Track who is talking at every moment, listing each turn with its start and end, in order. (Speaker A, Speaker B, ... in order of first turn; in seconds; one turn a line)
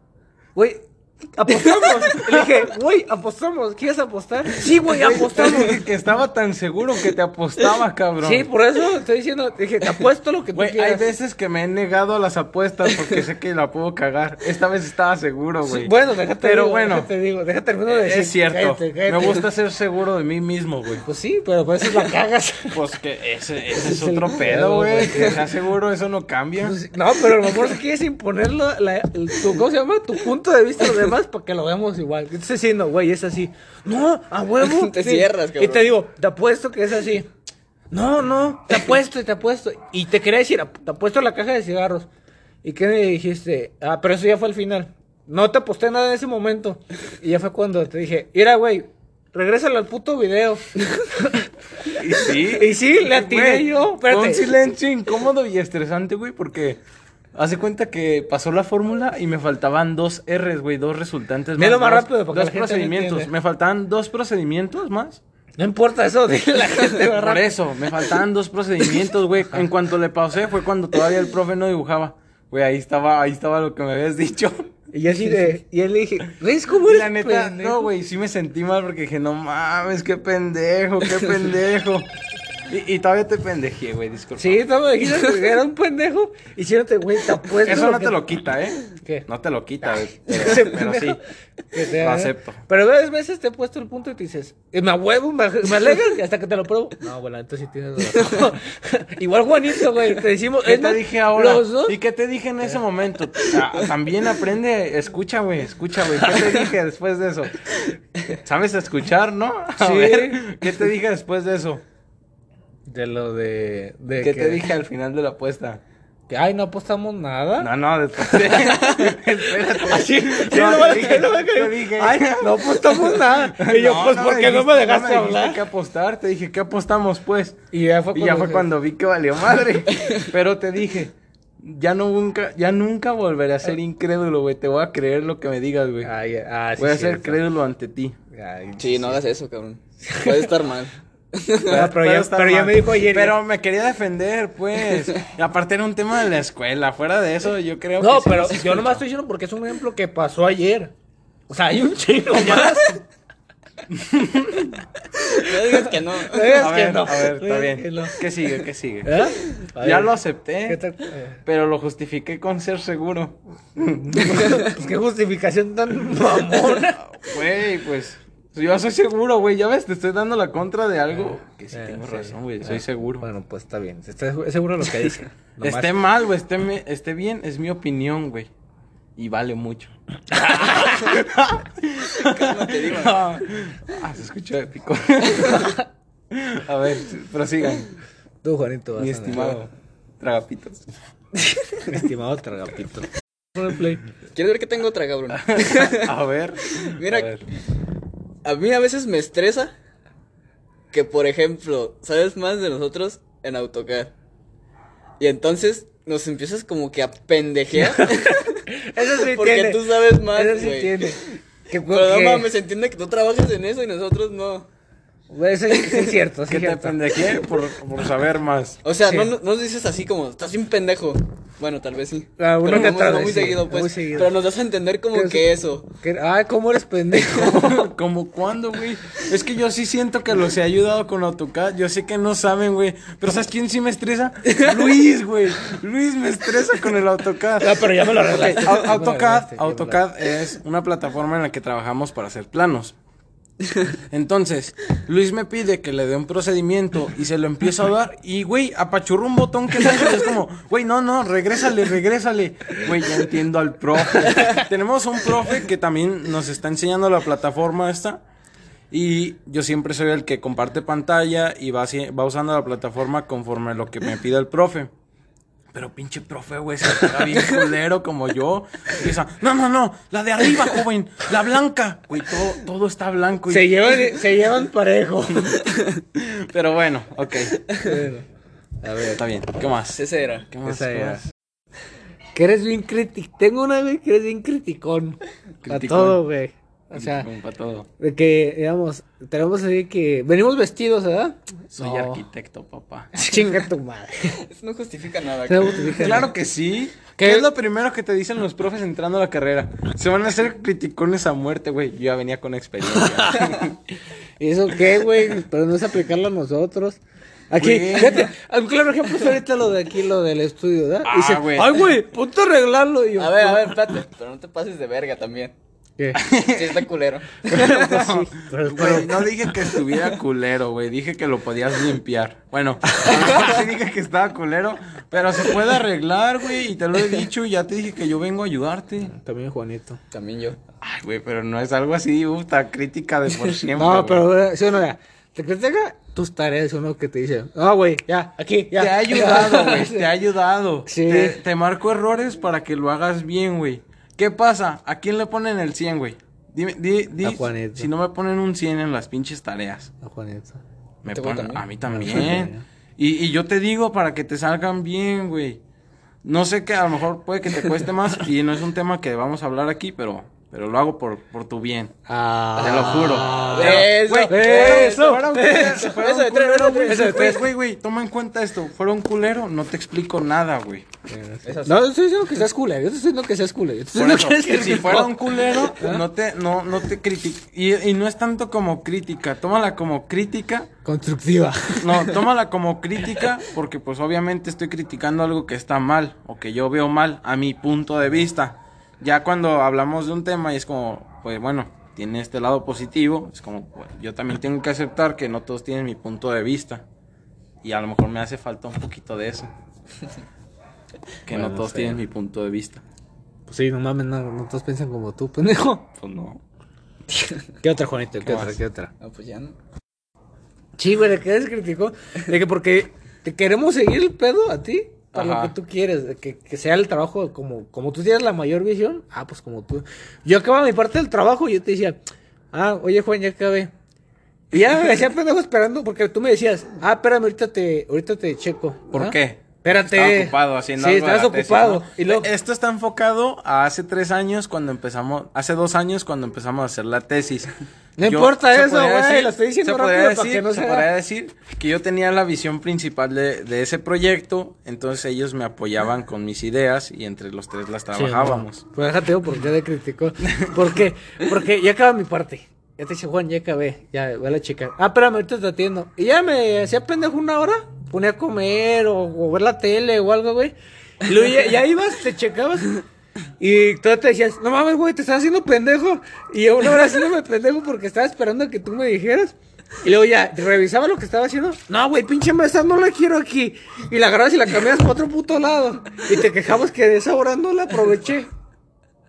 Speaker A: 0.6-5.8
Speaker B: 2.2-2.5
Speaker B: 4.8-8.5
Speaker A: 8.2-11.1
Speaker B: 10.5-17.1
Speaker A: 15.6-19.4
Speaker B: 17.9-21.0
Speaker A: 21.0-22.8
Speaker B: 22.7-26.8
Speaker A: 23.7-25.4
Speaker A: 26.6-37.3
Speaker C: 34.6-35.9
Speaker A: 37.9-42.1
Speaker A: 42.6-54.5
Speaker B: 51.9-56.8
Speaker B: 57.3-65.2
Speaker A: 61.6-63.3
Speaker A: 65.6-67.5
Speaker B: 67.1-74.7
Speaker A: 74.9-77.9
Speaker B: 76.8-82.1
Speaker B: 82.7-84.6
Speaker A: 84.4-88.2
Speaker B: 87.6-91.2
Speaker A: 90.2-91.2
Speaker A: 91.7-102.0
Speaker B: 92.0-92.6
Speaker B: 100.6-107.6
Speaker B: 108.3-111.8
Speaker A: 109.8-110.4
Speaker A: 112.9-114.7
Speaker B: 114.2-115.8
Speaker A: 116.3-125.6
Speaker B: 117.6-127.6
Speaker A: 127.7-128.7
Speaker B: 128.1-136.1
Speaker A: 136.0-137.4
Speaker B: 136.8-138.2
Speaker A: 138.3-139.2
Speaker C: 138.8-141.8
Speaker A: 140.1-140.5
Speaker A: 141.7-143.4
Speaker B: 141.7-149.0
Speaker A: 148.0-150.9
Speaker A: 151.5-153.0
Speaker B: 152.3-152.9
Speaker B: 153.9-154.8
Speaker C: 155.3-156.7
Speaker A: 156.2-158.2
Speaker B: 156.6-160.8
Speaker A: 159.0-161.4
Speaker B: 161.4-164.6
Speaker A: 163.8-167.0
Speaker B: 166.8-173.2
Speaker A: 171.7-176.0
Speaker B: 175.6-178.5
Speaker B: 179.2-179.9
Speaker A: 180.4-181.2
Speaker B: 180.5-185.8
Speaker C: 182.1-183.2
Speaker A: 185.5-185.8
Speaker B: 186.3-187.9
Speaker A: 188.4-189.7
Speaker B: 189.0-189.7
Speaker B: 190.2-190.9
Speaker A: 191.8-194.0
Speaker C: 194.3-196.1
Speaker B: 195.4-197.4
Speaker C: 196.7-197.4
Speaker C: 198.4-199.7
Speaker C: 200.9-204.1
Speaker C: 205.2-211.4
Speaker A: 207.9-212.5
Speaker C: 211.9-214.7
Speaker A: 215.3-217.0
Speaker C: 215.8-216.1
Speaker B: 216.5-218.8
Speaker C: 218.8-225.9
Speaker A: 219.0-219.3
Speaker A: 222.4-224.3
Speaker A: 225.1-227.9
Speaker B: 227.3-243.0
Speaker A: 237.6-240.0
Speaker B: 244.1-258.2
Speaker B: 258.9-264.9
Speaker B: 265.7-274.0
Speaker A: 273.5-275.6
Speaker B: 276.1-277.6
Speaker A: 277.8-278.2
Speaker A: 278.8-279.2
Speaker B: 279.1-281.3
Speaker C: 279.9-280.5
Speaker A: 280.6-281.2
Speaker A: 282.4-287.3
Speaker B: 285.6-286.2
Speaker B: 286.9-287.9
Speaker A: 288.0-292.2
Speaker B: 291.7-293.2
Speaker A: 293.1-294.4
Speaker C: 294.4-296.2
Speaker A: 295.5-296.3
Speaker B: 295.9-303.8
Speaker A: 297.2-297.5
Speaker A: 302.9-303.6
Speaker A: 304.4-313.8
Speaker B: 307.6-308.3
Speaker B: 311.1-311.9
Speaker C: 313.2-315.5
Speaker A: 316.0-316.2
Speaker B: 316.1-316.9
Speaker C: 316.4-317.6
Speaker A: 317.5-319.5
Speaker B: 317.5-329.1
Speaker C: 323.1-323.4
Speaker A: 329.1-330.0
Speaker C: 330.1-330.6
Speaker B: 330.8-334.2
Speaker A: 333.8-340.1
Speaker B: 338.8-349.9
Speaker A: 340.9-341.4
Speaker A: 347.2-347.9
Speaker A: 350.0-350.6
Speaker B: 351.0-355.6
Speaker C: 351.1-351.6
Speaker A: 351.9-352.6
Speaker B: 356.2-361.9
Speaker A: 362.1-366.0
Speaker B: 362.6-370.9
Speaker C: 362.7-367.3
Speaker A: 366.9-367.5
Speaker A: 371.1-376.0
Speaker C: 371.4-371.8
Speaker B: 373.9-380.7
Speaker A: 380.8-382.2
Speaker B: 381.8-396.9
Speaker B: 397.6-399.5
Speaker B: 401.2-402.8
Speaker A: 401.3-402.0
Speaker A: 403.5-405.9
Speaker B: 406.0-406.4
Speaker A: 407.6-408.9
Speaker B: 408.2-408.6
Speaker C: 409.0-409.6
Speaker A: 410.8-422.0
Speaker B: 415.1-415.5
Speaker A: 422.5-423.7
Speaker A: 424.5-432.3
Speaker B: 428.9-437.5
Speaker A: 438.0-440.9
Speaker B: 438.0-448.6
Speaker A: 447.9-462.8
Speaker A: 463.4-478.3